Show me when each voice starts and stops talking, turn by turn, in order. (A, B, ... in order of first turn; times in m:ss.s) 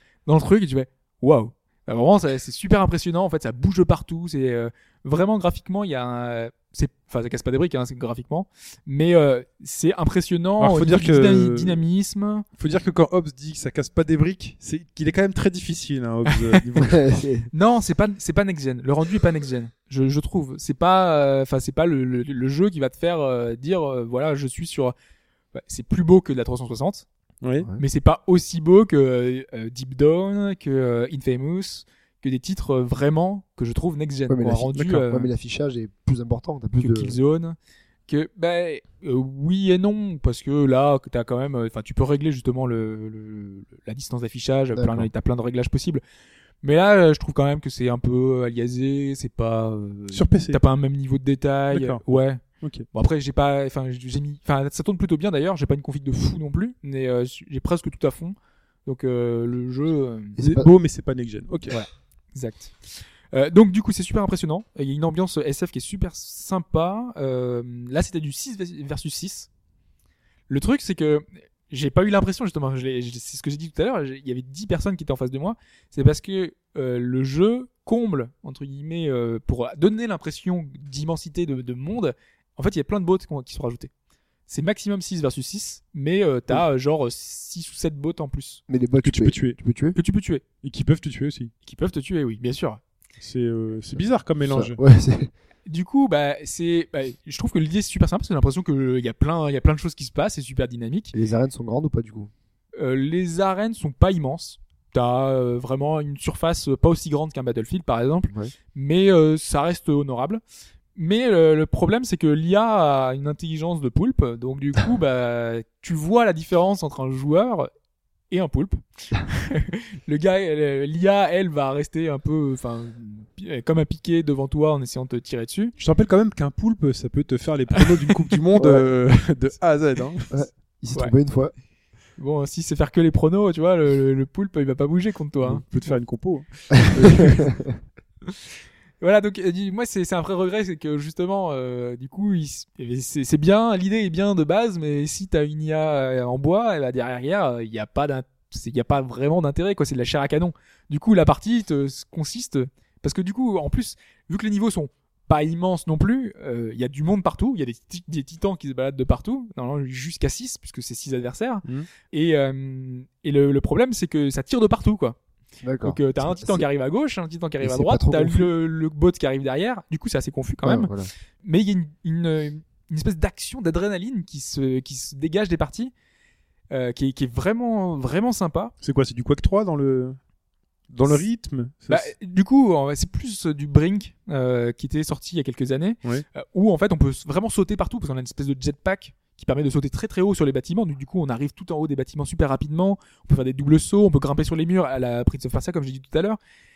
0:00.3-0:12.4 A
0:10.6-0:11.8 B
0:12.6-0:17.0 B
0:16.8-0:17.5 C
0:17.5-0:25.0 A
0:25.5-0:27.1 A
0:27.4-0:27.7 B
0:27.8-0:35.3 A
0:34.3-0:37.2 C
0:36.8-0:37.6 A
0:38.1-0:46.0 A
0:44.8-0:45.1 C
0:46.6-0:52.4 A
0:50.1-0:50.6 B
0:51.7-0:52.0 B
0:52.6-0:52.9 B
0:52.9-1:00.4 A
1:00.4-1:00.7 C
1:00.4-1:01.8 B
1:01.7-1:09.5 A
1:10.5-1:23.9 A
1:24.5-1:28.6 A
1:28.7-1:30.0 C
1:29.0-1:29.6 B
1:30.0-1:30.4 A
1:30.6-1:31.5 B
1:31.7-1:32.8 A
1:33.2-1:34.8 B
1:34.5-1:35.3 C
1:35.7-1:41.1 A
1:41.1-1:42.3 C
1:42.8-1:50.4 A
1:51.0-1:57.7 A
1:58.3-2:05.7 A
2:05.8-2:10.3 B
2:07.8-2:08.4 A
2:08.6-2:08.9 C
2:10.3-2:11.5 C
2:12.2-2:15.9 A
2:15.4-2:17.5 B
2:17.4-2:17.7 C
2:19.0-2:45.2 A
2:45.6-2:46.7 C
2:45.8-2:55.9 A
2:47.6-2:48.5 C
2:50.6-2:51.1 C
2:56.7-2:58.7 A
2:58.8-3:00.2 B
3:00.9-3:02.1 B
3:01.9-3:16.4 A